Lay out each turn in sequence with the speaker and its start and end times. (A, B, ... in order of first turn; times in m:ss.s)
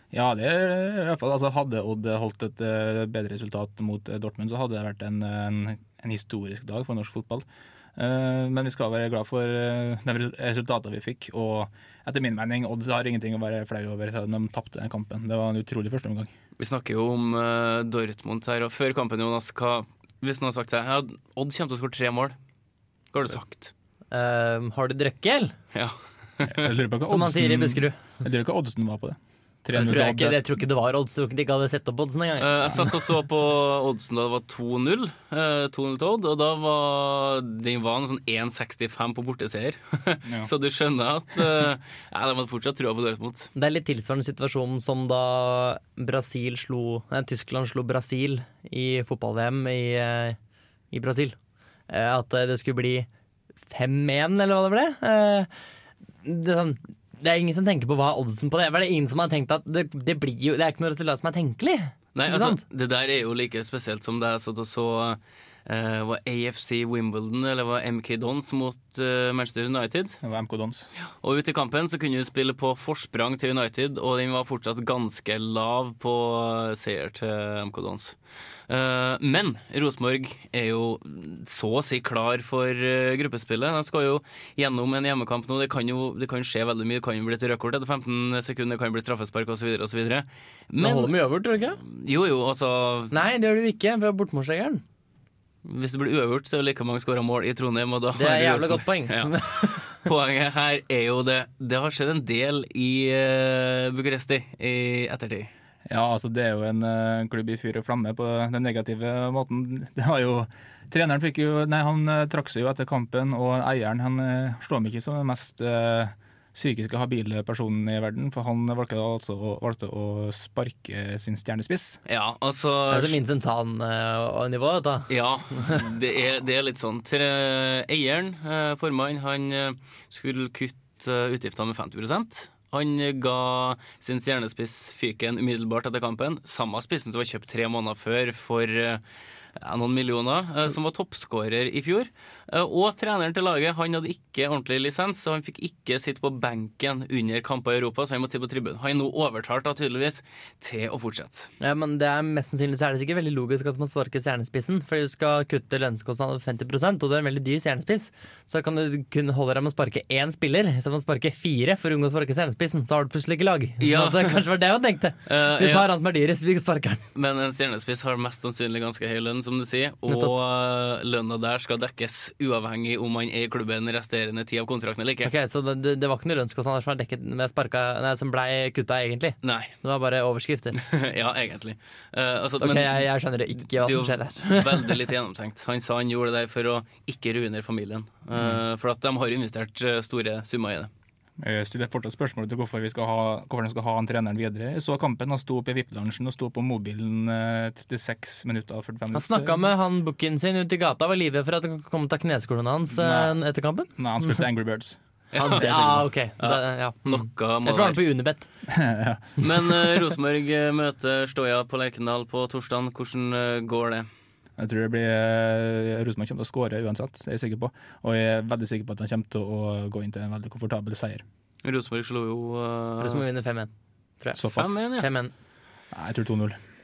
0:00.1-0:16.3 A
0:16.6-0:22.4 B
0:23.1-0:23.7 B
0:24.1-0:25.5 C
0:25.7-0:26.5 B
0:26.4-0:30.4 A
0:27.1-0:28.0 C
0:29.7-0:33.0 C
0:32.4-0:43.5 B
0:43.6-0:50.4 C
0:50.9-0:51.4 C
0:51.9-0:53.1 C
0:53.7-0:55.5 C
0:56.2-1:02.6 C
1:02.1-1:10.2 B
1:10.2-1:10.9 A
1:11.2-1:18.2 B
1:18.7-1:31.2 B
1:30.8-1:31.8 C
1:31.8-1:33.1 B
1:33.1-1:34.8 C
1:35.6-1:45.5 B
1:38.1-1:39.9 C
1:45.9-2:02.0 A
2:02.0-2:03.2 B
2:02.9-2:05.8 C
2:05.1-2:19.0 B
2:19.6-2:31.5 B
2:31.6-2:47.0 C
2:43.8-2:44.5 B
2:45.2-2:45.9 B
2:47.1-2:55.3 B
2:50.1-2:50.3 C
2:55.2-3:00.8 C
2:59.4-2:59.7 B
3:00.7-3:03.1 B
3:02.6-3:05.0 C
3:03.7-3:10.9 B
3:08.3-3:08.6 A
3:11.4-3:19.7 A
3:19.1-3:24.4 C
3:22.9-3:23.4 A
3:24.0-3:25.0 A
3:25.3-3:28.0 B
3:25.4-3:28.5 C
3:28.7-3:30.0 A
3:29.4-3:34.1 B
3:34.6-3:41.2 A
3:41.6-3:43.2 B
3:43.0-3:43.7 C
3:44.4-3:44.8 A
3:44.5-3:45.1 B
3:44.9-3:45.3 C
3:45.9-3:46.6 A